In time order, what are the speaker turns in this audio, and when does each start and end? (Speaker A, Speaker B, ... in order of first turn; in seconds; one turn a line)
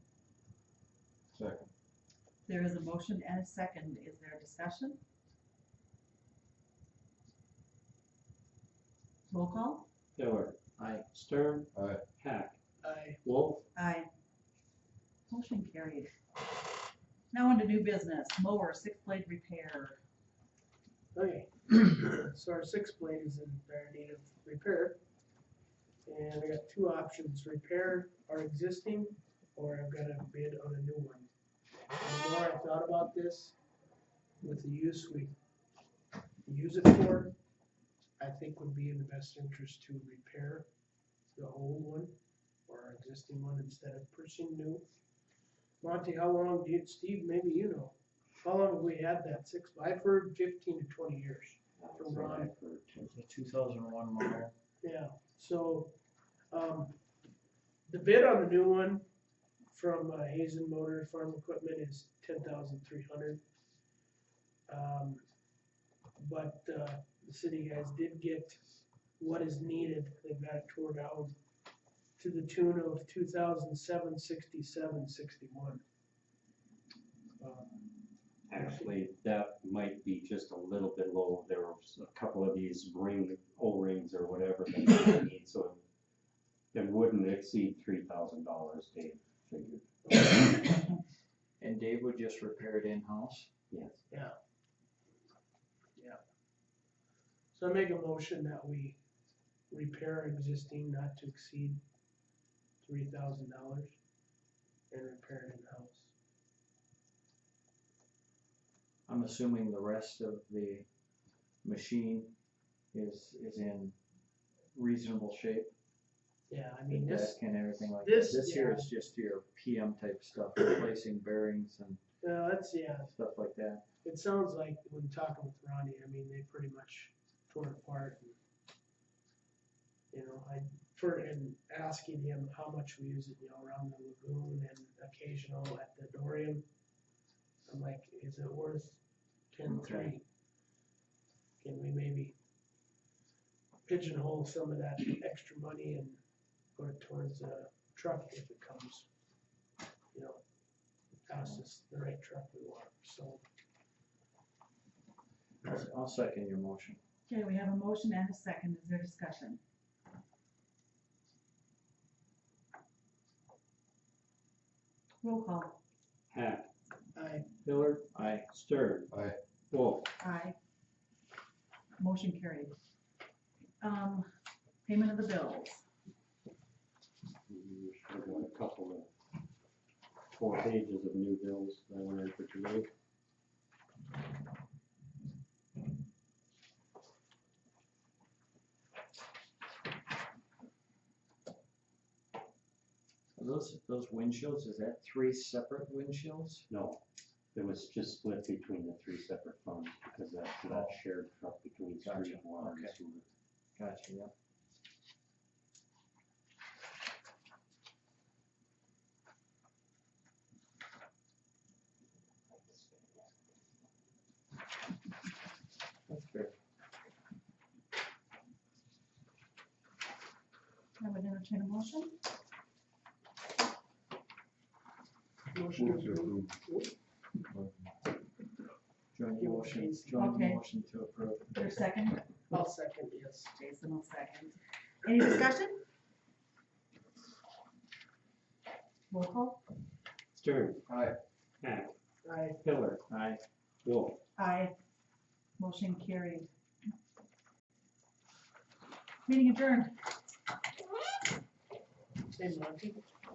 Speaker A: 1.3-1.7
Speaker B: 2.5-5.0
Speaker B: 9.3-9.9
Speaker C: 10.2-10.6
Speaker D: 10.8-11.1
Speaker C: 11.1-12.6
Speaker A: 11.7-12.0
Speaker E: 12.8-13.2
Speaker C: 13.2-13.7
Speaker B: 13.8-14.1
Speaker B: 15.3-16.1
Speaker B: 17.3-20.0
Speaker E: 21.1-25.0
Speaker E: 26.1-31.3
Speaker E: 32.0-33.6
Speaker E: 34.4-35.3
Speaker E: 36.5-37.4
Speaker E: 38.2-40.7
Speaker E: 41.4-42.2
Speaker E: 42.7-44.9
Speaker E: 45.8-52.5
Speaker C: 51.8-53.1
Speaker D: 53.0-54.5
Speaker E: 54.8-55.9
Speaker E: 56.5-57.0
Speaker E: 57.9-59.0
Speaker E: 59.7-63.4
Speaker E: 64.7-65.2
Speaker E: 66.2-68.6
Speaker E: 69.2-71.3
Speaker E: 72.2-75.8
Speaker E: 77.4-77.8
Speaker C: 78.5-85.8
Speaker E: 78.5-78.9
Speaker C: 86.7-89.8
Speaker E: 90.1-90.5
Speaker D: 91.6-93.5
Speaker C: 93.7-94.0
Speaker E: 94.1-94.4
Speaker E: 97.5-99.0
Speaker E: 99.7-101.8
Speaker E: 102.8-104.0
Speaker E: 104.9-106.1
Speaker D: 109.1-110.9
Speaker D: 111.6-112.3
Speaker D: 112.9-114.0
Speaker D: 114.8-115.7
Speaker E: 116.5-118.9
Speaker D: 116.9-122.0
Speaker E: 122.2-123.1
Speaker D: 123.0-123.8
Speaker E: 124.0-128.4
Speaker E: 130.1-136.6
Speaker E: 137.7-139.0
Speaker E: 139.5-140.2
Speaker D: 139.7-140.1
Speaker E: 141.6-142.3
Speaker E: 143.8-146.2
Speaker E: 146.8-149.1
Speaker E: 150.1-150.4
Speaker E: 151.2-153.4
Speaker D: 155.6-157.0
Speaker B: 157.3-159.6
Speaker B: 165.2-165.8
Speaker C: 166.3-166.7
Speaker E: 167.2-167.5
Speaker C: 167.6-169.1
Speaker D: 168.1-168.5
Speaker A: 169.1-169.4
Speaker C: 169.7-170.1
Speaker B: 170.2-170.6
Speaker B: 172.0-172.8
Speaker B: 173.8-174.3
Speaker B: 174.8-175.8
Speaker C: 177.5-179.1
Speaker C: 180.3-182.9
Speaker D: 193.3-196.7
Speaker C: 196.7-197.0
Speaker C: 197.6-203.3
Speaker D: 200.7-201.0
Speaker D: 202.0-203.0
Speaker D: 203.8-204.3
Speaker D: 216.1-216.5
Speaker B: 221.0-222.2
Speaker E: 225.5-226.9
Speaker A: 225.7-226.6
Speaker A: 227.5-227.8
Speaker D: 229.1-231.6
Speaker E: 229.3-230.2
Speaker B: 230.2-230.6
Speaker B: 231.5-232.5
Speaker E: 232.5-233.5
Speaker B: 233.5-235.8
Speaker B: 239.1-239.6
Speaker C: 240.3-240.8
Speaker A: 240.9-241.2
Speaker C: 241.6-241.9
Speaker E: 242.2-242.6
Speaker C: 242.6-243.1
Speaker D: 243.1-243.4
Speaker C: 243.8-244.2
Speaker B: 244.4-244.8
Speaker B: 245.6-246.5
Speaker B: 249.3-249.9
Speaker E: 252.3-253.1